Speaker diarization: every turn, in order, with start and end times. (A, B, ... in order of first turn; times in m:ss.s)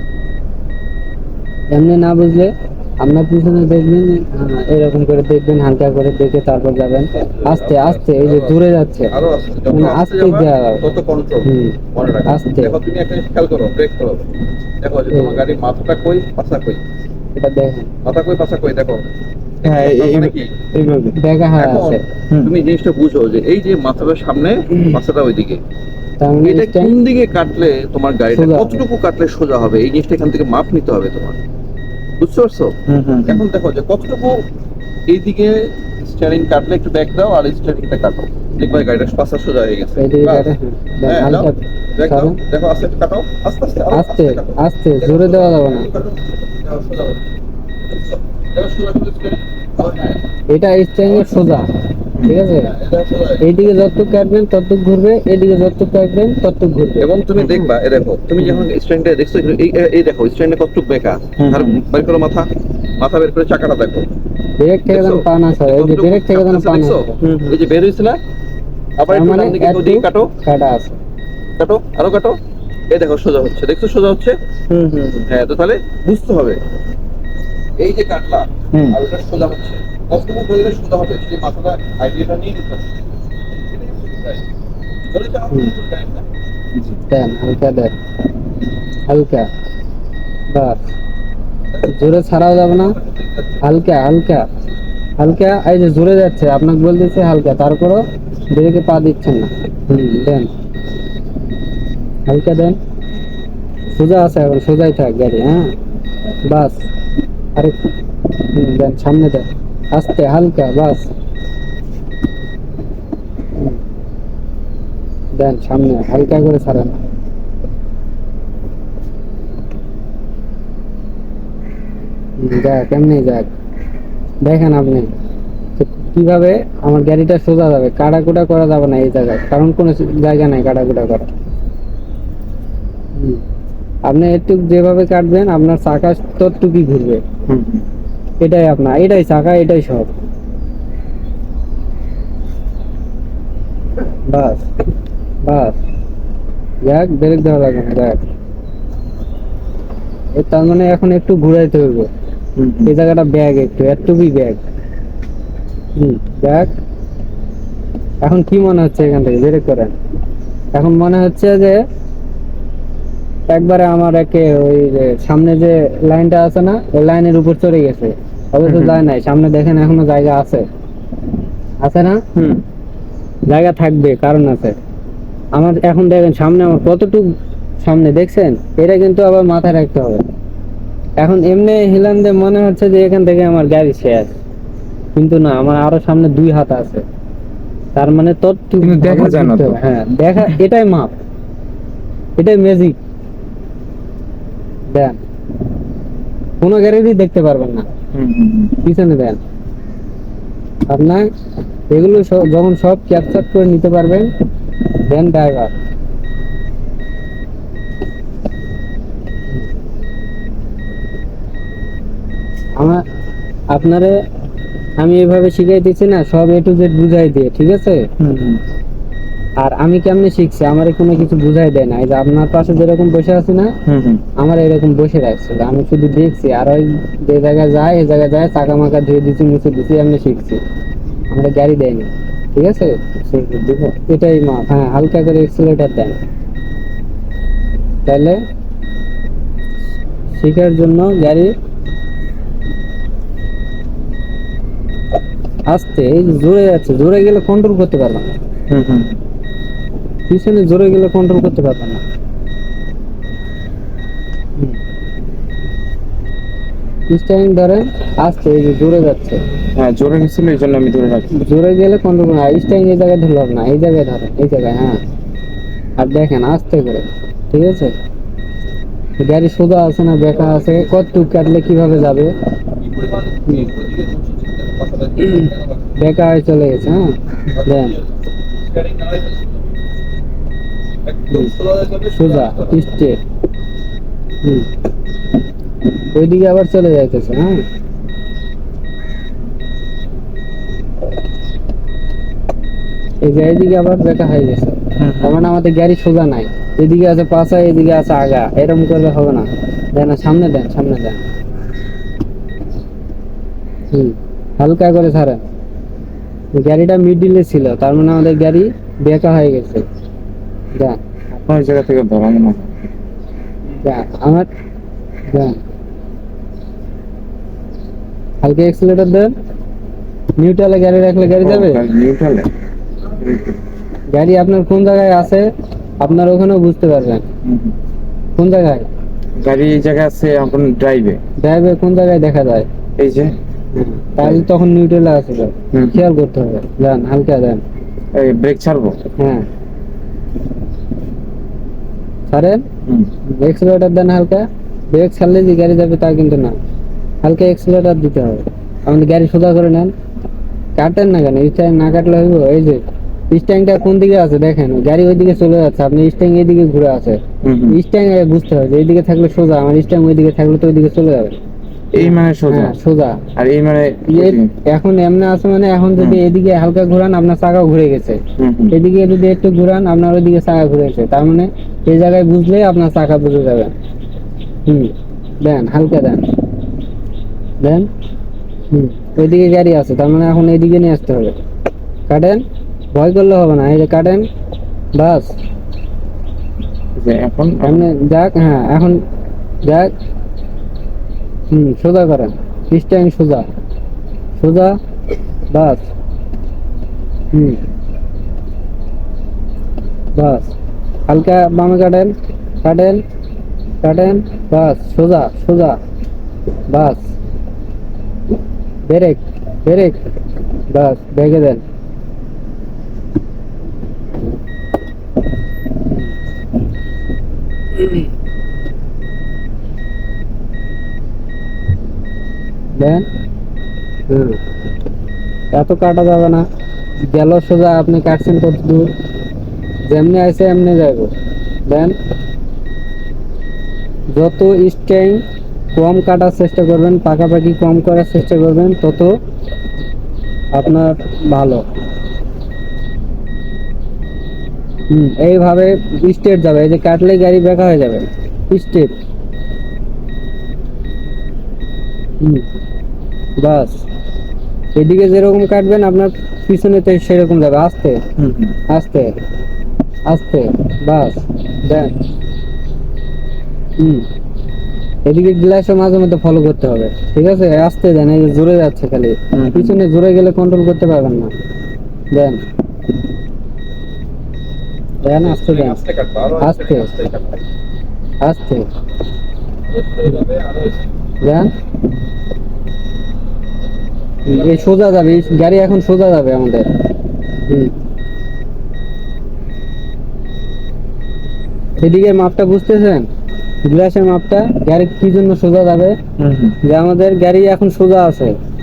0:01.7-0:09.1 A
0:07.2-0:08.6 B
0:09.1-0:14.2 B
0:09.7-0:10.8 A
0:11.4-0:12.8 A
0:14.8-0:16.8 B
0:15.1-0:15.4 A
0:17.4-0:17.9 A
0:18.0-0:19.0 B
0:19.6-0:20.5 B
0:19.6-0:21.2 C
0:21.1-0:22.0 A
0:21.6-0:25.6 B
0:26.2-0:26.9 A
0:26.4-0:31.4 B
0:28.3-0:28.8 A
0:32.2-0:34.4 B
0:32.9-0:33.4 C
0:35.1-0:40.5 B
0:40.0-0:42.4 A
0:41.0-0:47.2 B
0:43.9-0:45.9 A
0:48.5-0:50.2 B
0:50.5-0:51.7 A
0:52.2-0:52.7 A
0:52.7-0:53.4 B
0:53.4-0:57.1 A
0:57.0-1:04.1 B
0:57.4-0:57.7 C
0:58.4-0:58.7 C
1:01.4-1:01.8 C
1:04.6-1:07.1 A
1:04.9-1:08.2 B
1:07.2-1:07.5 C
1:09.0-1:10.3 B
1:09.1-1:11.0 A
1:11.6-1:12.4 B
1:12.9-1:14.4 B
1:14.7-1:15.2 C
1:15.3-1:16.6 B
1:17.8-1:22.8 B
1:23.7-1:24.4 B
1:25.1-1:26.3 B
1:27.1-1:27.9 A
1:29.1-1:29.5 A
1:30.5-1:30.8 A
1:31.8-1:33.0 A
1:33.6-1:34.4 A
1:35.2-1:40.5 A
1:42.3-1:42.8 A
1:43.9-1:45.7 A
1:46.4-1:46.8 A
1:48.4-1:51.1 A
1:55.3-1:57.0 A
2:02.4-2:03.5 A
2:04.4-2:05.1 A
2:05.8-2:11.3 A
2:13.2-2:13.4 A
2:14.0-2:17.2 A
2:17.5-2:17.8 C
2:18.4-2:20.1 A
2:24.3-2:24.6 A
2:25.4-2:25.8 A
2:26.8-2:28.3 A
2:30.3-2:32.1 A
2:32.6-2:32.9 C
2:32.8-2:34.6 A
2:36.0-2:36.7 A
2:38.2-2:39.9 A
2:40.7-2:41.8 A
2:43.5-2:50.6 A
2:48.6-2:49.0 C
2:51.8-2:52.2 A
2:52.3-2:52.6 C
2:53.5-2:54.8 A
2:55.5-2:57.3 A
2:57.8-3:00.2 A
3:01.2-3:04.3 A
3:05.1-3:07.0 A
3:08.0-3:11.1 A
3:08.8-3:09.8 C
3:12.4-3:13.0 A
3:14.9-3:15.2 A
3:16.6-3:17.9 A
3:18.1-3:18.8 C
3:18.8-3:19.4 A
3:20.9-3:21.2 A
3:21.9-3:24.3 A
3:25.1-3:25.7 A
3:33.7-3:34.2 A
3:35.0-3:38.1 A
3:38.2-3:38.6 C
3:39.6-3:43.7 A
3:43.8-3:44.2 C
3:44.4-3:50.6 A
3:51.3-3:53.0 A
3:53.2-3:54.0 C
3:54.1-3:56.2 A
3:58.0-3:58.4 A
4:00.4-4:01.5 A
4:05.7-4:08.3 A
4:08.7-4:09.2 C
4:10.3-4:12.0 A
4:17.1-4:19.4 A
4:19.8-4:21.3 C
4:21.3-4:25.0 A
4:26.0-4:27.9 A
4:29.2-4:32.3 A
4:30.5-4:30.8 B
4:32.9-4:35.6 B
4:35.4-4:38.0 A
4:37.6-4:38.0 B
4:38.7-4:39.5 B
4:41.1-4:42.7 B
4:42.1-4:43.2 A
4:46.1-4:47.6 A
4:53.2-5:01.2 A
4:55.0-4:55.5 C
5:03.9-5:05.4 A
5:06.5-5:09.8 A
5:11.3-5:12.7 C
5:13.8-5:14.5 A
5:15.3-5:15.6 A
5:18.4-5:19.3 A
5:20.4-5:21.8 A
5:21.4-5:22.5 C
5:23.2-5:23.6 C
5:24.1-5:25.5 A
5:26.0-5:27.2 A
5:27.4-5:27.7 C
5:28.4-5:28.9 A
5:29.4-5:31.2 C
5:31.4-5:32.7 A
5:33.0-5:33.4 C
5:33.7-5:37.6 A
5:35.7-5:36.0 C
5:38.1-5:39.0 C
5:39.2-5:39.4 A
5:42.3-5:42.6 A
5:43.3-5:46.6 A
5:47.2-5:49.9 A
5:50.8-6:01.4 A
5:57.4-5:57.8 C
6:01.9-6:02.8 C
6:02.0-6:03.2 A
6:03.4-6:04.5 C
6:04.1-6:08.2 A
6:06.0-6:06.2 C
6:08.4-6:08.8 C
6:08.7-6:13.7 A
6:14.7-6:16.2 A
6:17.6-6:17.9 A
6:18.7-6:21.3 A
6:22.1-6:24.3 A
6:24.9-6:25.3 A
6:27.0-6:27.9 C
6:27.6-6:29.0 A
6:29.6-6:29.9 A
6:31.5-6:33.4 A
6:34.4-6:34.8 A
6:35.5-6:35.9 A
6:37.3-6:37.6 A
6:40.1-6:40.5 A
6:41.1-6:43.0 A
6:43.8-6:45.8 A
6:46.7-6:47.1 A
6:48.9-6:50.0 A
6:50.7-6:51.6 A
6:57.8-6:58.0 A
7:02.7-7:03.0 A
7:04.1-7:04.4 A
7:05.5-7:06.4 A
7:07.1-7:08.9 A
7:09.9-7:11.1 A
7:11.7-7:11.9 A
7:14.1-7:15.2 A
7:15.7-7:19.2 A
7:20.5-7:21.6 A
7:24.9-7:28.9 A
7:32.2-7:32.4 A
7:33.4-7:33.8 A
7:34.7-7:38.0 A
7:38.2-7:38.6 C
7:38.7-7:39.1 A
7:40.1-7:41.9 A
7:43.8-7:44.0 A
7:45.0-7:51.3 A
7:49.3-7:49.8 C
7:52.1-7:52.4 A
7:55.0-7:55.8 A
7:55.1-7:57.4 B
7:56.4-7:56.9 A
7:58.2-7:58.6 A
7:59.7-8:00.8 B
8:01.2-8:01.5 A
8:04.2-8:06.7 A
8:07.5-8:07.7 A
8:11.8-8:13.1 A
8:13.6-8:16.0 A
8:16.2-8:16.6 C
8:16.6-8:18.3 A